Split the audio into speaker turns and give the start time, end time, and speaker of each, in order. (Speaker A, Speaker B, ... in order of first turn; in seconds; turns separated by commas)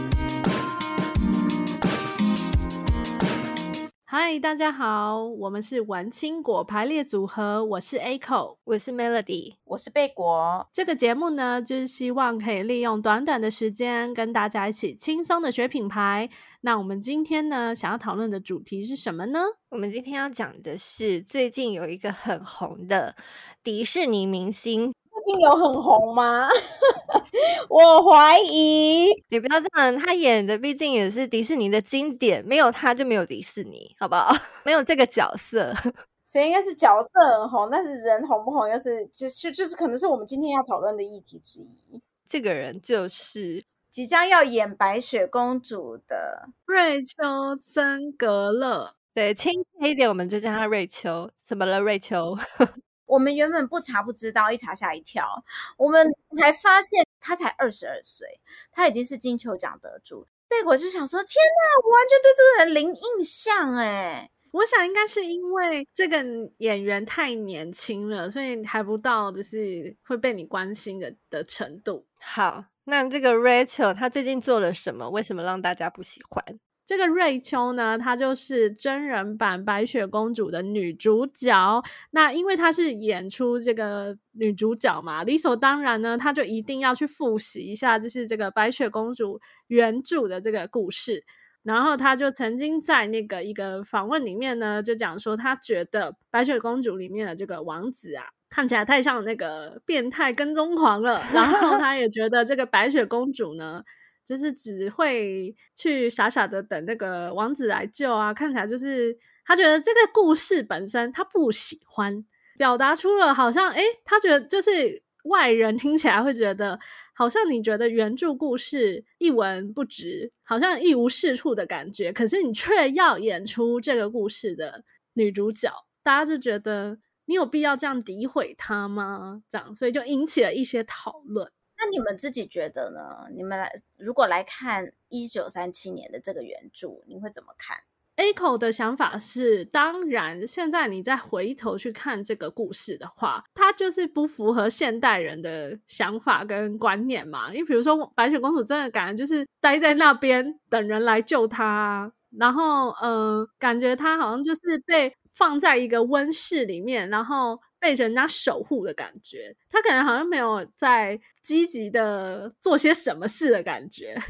Speaker A: 4.1-8.6, Speaker B: 8.7-9.6, Speaker C: 9.7-10.7, Speaker A: 10.7-19.5, Speaker B: 19.7-24.9, Speaker C: 25.1-26.5, Speaker C: 27.7-29.2, Speaker B: 29.3-35.8, Speaker C: 36.3-42.0, Speaker B: 42.3-43.6, Speaker C: 43.9-46.5, Speaker A: 46.7-48.9, Speaker B: 49.1-52.4, Speaker C: 53.1-64.3, Speaker A: 64.5-72.1, Speaker B: 72.2-76.6, Speaker A: 76.9-131.5, Speaker C: 131.8-137.8, Speaker A: 138.2-164.2